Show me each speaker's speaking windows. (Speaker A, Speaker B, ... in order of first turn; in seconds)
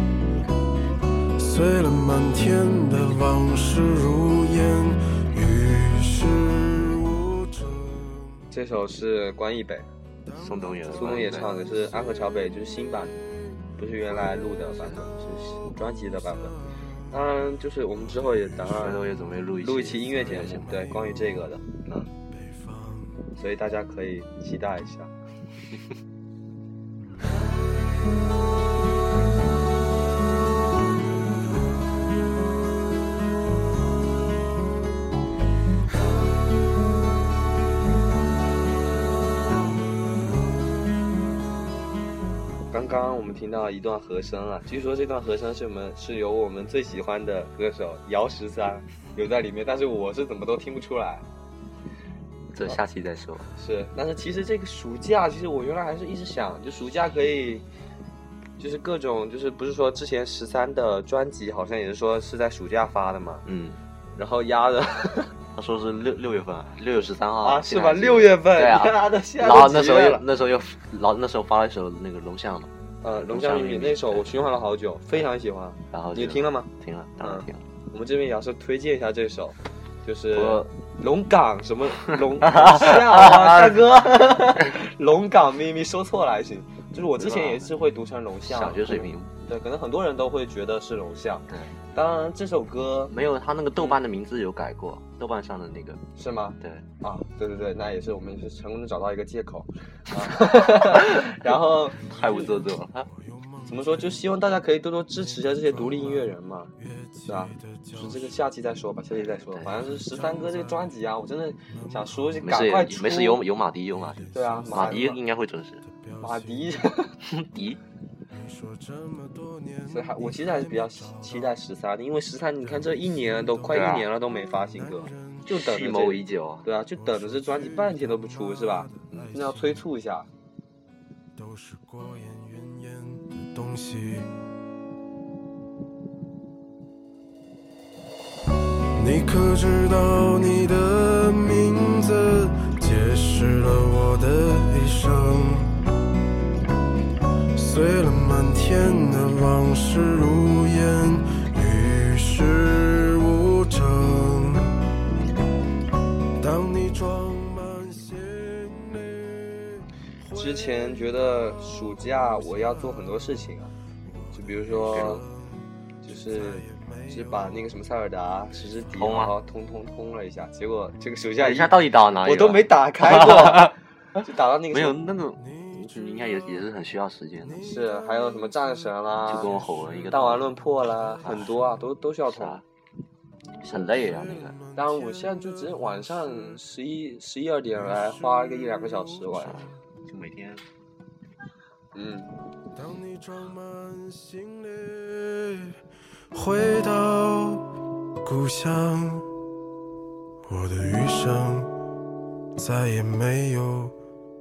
Speaker A: 1.4-8.3, 10.3-10.8, 11.4-12.1, 16.2-16.6, 20.4-21.3, 22.3-23.0, 103.1-104.2, 105.5-108.3, 109.8-110.9, 111.7-112.3, 114.1-115.2, 115.8-116.7, 118.3-121.5, 122.6-124.0, 124.8-125.5, 126.9-129.8, 131.3-134.3, 138.9-145.8, 147.5-154.8, 156.4-160.7, 164.1-165.3, 166.3-167.6, 168.6-168.8, 175.4-176.6, 177.4-178.5, 179.5-180.4, 183.7-186.6, 187.8-189.8, 192.7-195.8, 196.3-197.7, 198.2-199.3, 200.4-201.7, 202.5-203.9
Speaker B: 8.5-9.9, 10.9-13.2, 13.8-15.1, 15.6-16.6, 17.1-19.0, 19.6-21.7, 23.4-25.1, 42.7-51.2, 53.5-57.6, 58.6-63.4, 64.2-65.3, 67.4-70.2, 73.0-76.7, 77.2-93.1, 96.2-102.5, 103.7-106.7, 107.3-113.4, 114.3-115.2, 116.2-117.2, 119.9-130.3, 160.3-163.7, 164.3-165.2, 166.0-175.0, 177.6-179.5, 180.1-182.6, 184.8-189.6, 191.9-192.3
Speaker C: 10.4-11.6, 14.8-15.6, 18.7-20.7, 52.5-53.5, 63.4-63.8, 65.5-74.3, 75.9-77.6, 80.3-80.7, 82.1-83.8, 87.2-87.7, 88.5-89.3, 93.1-96.0, 96.6-96.8, 100.2-101.4, 102.0-103.1, 109.4-109.7, 112.4-115.8, 117.2-117.8, 123.7-124.1, 125.5-126.7, 164.9-165.2, 168.9-169.3, 171.4-173.7, 174.7-177.8, 179.3-180.5, 182.3-182.6, 183.6-184.6, 189.5-190.6